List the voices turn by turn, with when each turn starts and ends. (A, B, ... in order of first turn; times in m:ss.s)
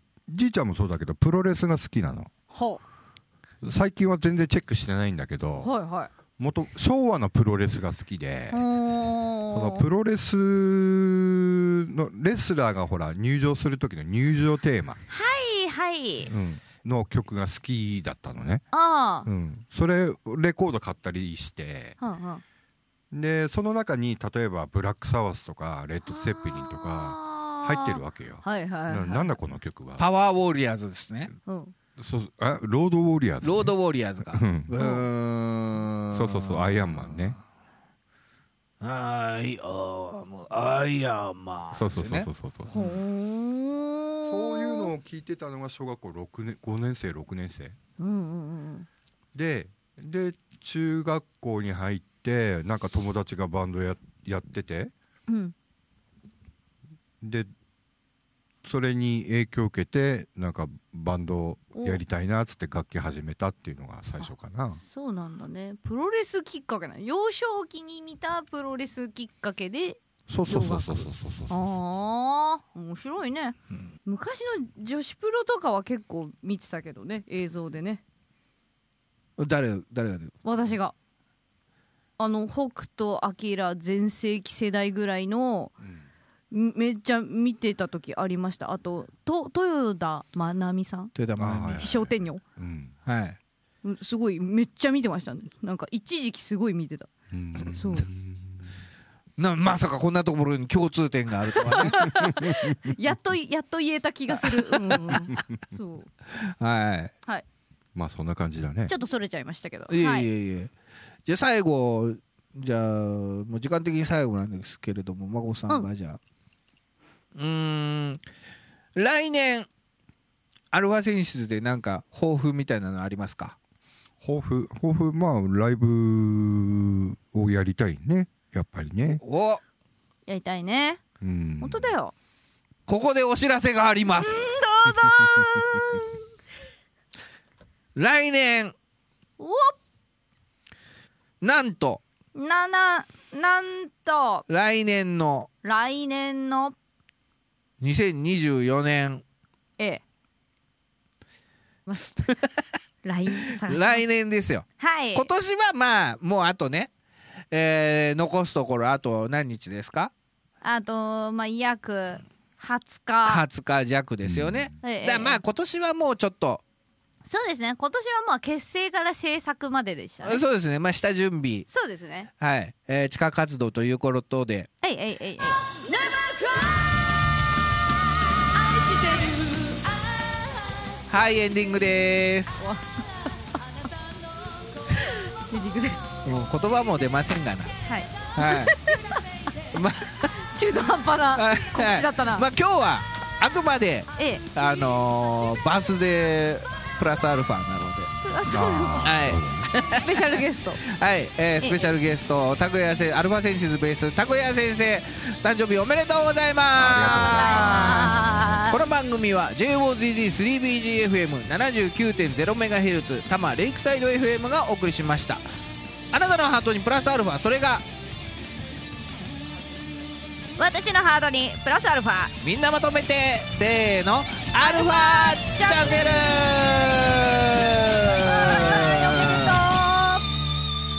0:00.3-0:02.3 A
0:02.5-0:02.8 B
0:03.6-0:05.7 A
0:05.6-0:06.1 B
0:06.4-0:08.6 A
0:08.5-0:09.9 B
0:09.5-0:15.0 A
0:15.1-0:16.3 B
0:16.3-0:18.6 A
0:18.7-0:19.3 B
0:19.2-0:22.0 A
0:22.0-0:22.4 B
0:23.1-0:30.1 A
0:26.1-0:29.3 B
0:30.0-0:31.3 C
0:31.5-0:31.7 B
0:32.0-0:33.7 A
0:33.4-0:37.4 C
0:34.3-0:34.7 A
0:34.8-0:35.1 B
0:36.1-0:37.4 A
0:38.8-0:42.9 C
0:41.7-0:42.7 A
0:42.7-0:44.9 B
0:44.2-0:47.8 A
0:48.0-0:48.9 B
0:49.3-0:54.9 A
0:55.3-0:55.5 B
0:57.2-0:57.5 A
0:58.6-1:04.8 A
1:01.8-1:02.0 B
1:04.8-1:18.0 B
1:10.3-1:11.6 A
1:19.4-1:20.4 C
1:20.4-1:20.9 B
1:22.2-1:25.8 B
1:26.5-1:32.4 B
1:31.2-1:31.8 C
1:31.4-1:33.0 A
1:33.0-1:33.4 C
1:33.8-1:37.1 B
1:37.3-1:38.8 A
1:37.6-1:38.1 B
1:39.4-1:42.0 C
1:41.7-1:46.1 B
1:41.9-1:43.0 A
1:44.9-1:45.2 C
1:46.5-1:47.1 C
1:48.0-1:48.9 A
1:48.9-1:50.3 B
1:49.9-1:50.7 C
1:51.3-1:56.2 C
1:57.4-1:58.2 C
1:59.0-1:59.7 C
2:00.7-2:03.6 C
2:04.2-2:09.2 A
2:09.2-2:09.6 C
2:10.3-2:11.0 B
2:11.2-2:11.9 A
2:11.6-2:12.1 B
2:12.9-2:14.7 C
2:14.2-2:16.0 B
2:14.9-2:15.7 A
2:18.0-2:18.8 C
2:19.4-2:19.8 B
2:21.4-2:22.0 C
2:22.4-2:24.5 B
2:24.5-2:25.5 C
2:25.6-2:26.8 B
2:27.8-2:29.2 C
2:32.2-2:32.5 C
2:33.0-2:34.0 B
2:33.5-2:36.9 C
2:34.8-2:35.3 B
2:37.5-2:40.1 C
2:40.6-2:43.4 B
2:43.2-2:46.6 C
2:44.3-2:44.7 A
2:44.8-2:45.4 B
2:47.3-2:50.4 B
2:50.2-2:51.7 C
2:51.7-2:52.3 B
2:52.4-2:54.7 C
2:54.8-2:56.8 B
2:58.6-2:59.9 B
3:01.1-3:02.7 C
3:02.6-3:02.8 B
3:04.9-3:06.2 B
3:06.2-3:07.7 C
3:07.9-3:09.2 B
3:08.4-3:08.8 C
3:09.7-3:10.3 C
3:10.5-3:12.4 B
3:11.4-3:18.1 C
3:14.2-3:14.4 B
3:18.2-3:19.3 B
3:18.5-3:19.7 A
3:19.0-3:35.5 C
3:19.8-3:20.8 B
3:21.6-3:21.9 B
3:26.8-3:28.7 A
3:27.3-3:28.8 B
3:36.1-3:37.8 C
3:40.6-3:42.4 B
3:42.4-3:49.6 C
3:44.6-3:46.3 B
3:48.1-3:50.2 B